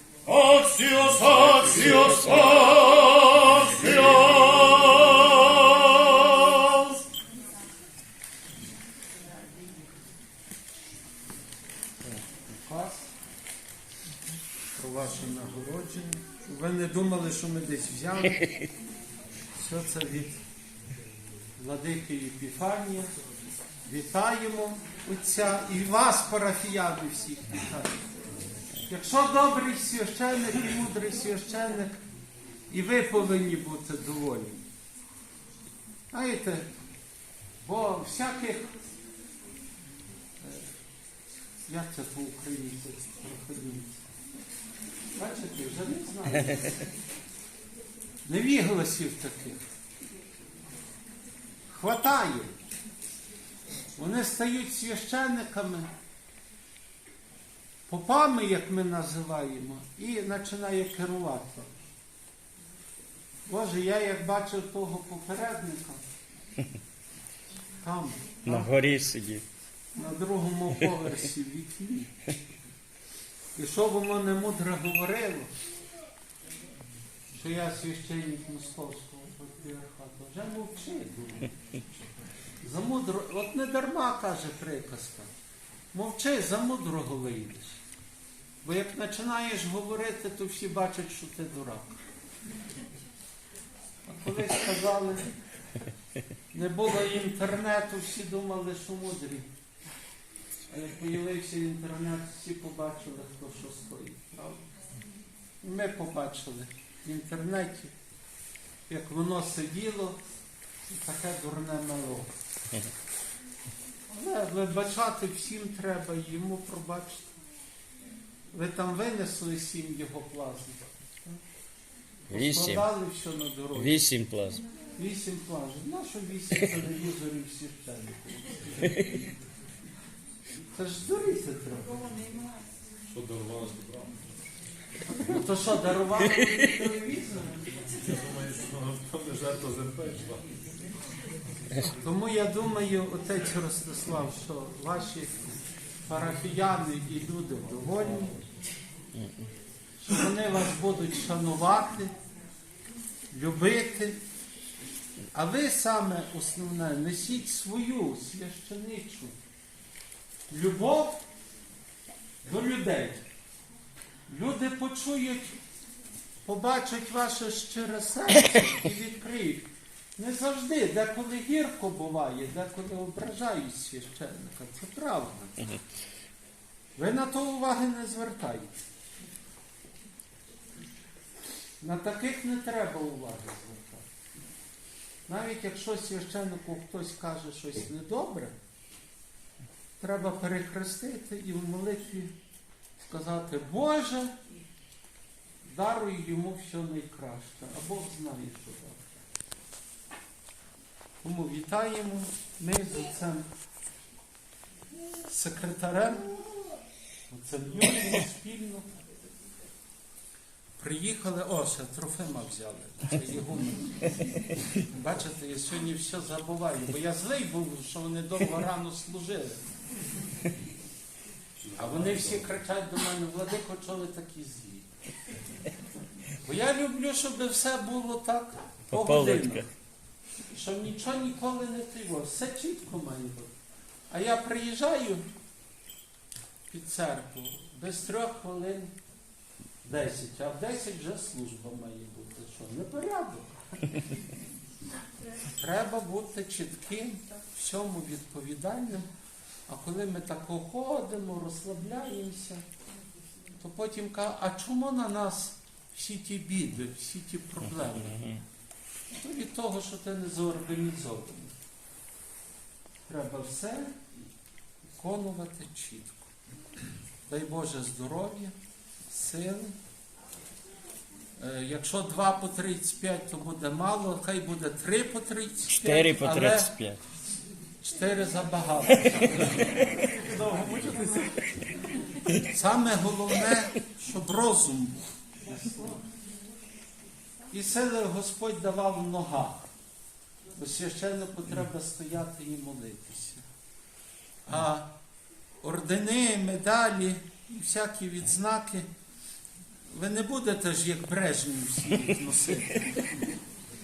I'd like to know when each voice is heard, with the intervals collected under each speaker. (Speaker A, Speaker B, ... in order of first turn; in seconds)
Speaker A: 0.2-6.6, 133.1-134.2, 137.9-140.4, 221.6-222.5
Speaker B: 1.2-2.5, 68.5-69.4, 122.3-122.8, 123.8-124.6, 228.9-229.6, 275.8-277.0
Speaker C: 12.0-13.1, 14.8-18.5, 19.6-20.4, 21.6-23.1, 23.9-28.0, 28.9-32.0, 32.7-34.6, 36.1-36.7, 37.6-38.7, 40.4-40.7, 41.7-44.0, 45.1-46.8, 48.2-49.6, 51.7-52.5, 54.0-55.9, 57.9-61.7, 63.5-66.0, 67.8-68.7, 69.9-72.1, 73.5-75.5, 77.3-81.5, 82.6-85.3, 85.9-87.8, 88.6-92.0, 94.0-95.3, 96.5-99.5, 100.7-104.7, 105.6-107.9, 108.9-110.2, 110.8-112.3, 114.1-117.3, 118.5-121.4, 122.3-124.1, 125.0-129.2, 130.7-132.3, 135.2-137.7, 141.9-148.4, 150.0-152.1, 153.3-154.2, 155.3-159.3, 160.5-161.2, 162.4-163.2, 164.3-165.6, 166.4-175.8, 177.0-178.7, 181.8-184.1, 185.3-188.6, 190.0-192.3, 193.0-194.4, 195.6-199.2, 201.2-203.5, 205.2-206.5, 207.3-208.9, 210.8-219.7, 221.8-224.9, 226.4-229.7, 230.5-233.5, 234.1-235.2, 236.7-238.9, 239.8-244.0, 245.4-249.1, 249.7-252.6, 253.6-258.4, 259.1-261.5, 263.1-264.0, 264.9-266.3, 267.2-268.5, 269.1-269.8, 271.4-276.7, 277.8-281.3, 282.3-286.0, 287.5-289.7, 290.5-293.4, 294.4-294.9, 295.6-298.9, 299.9-303.1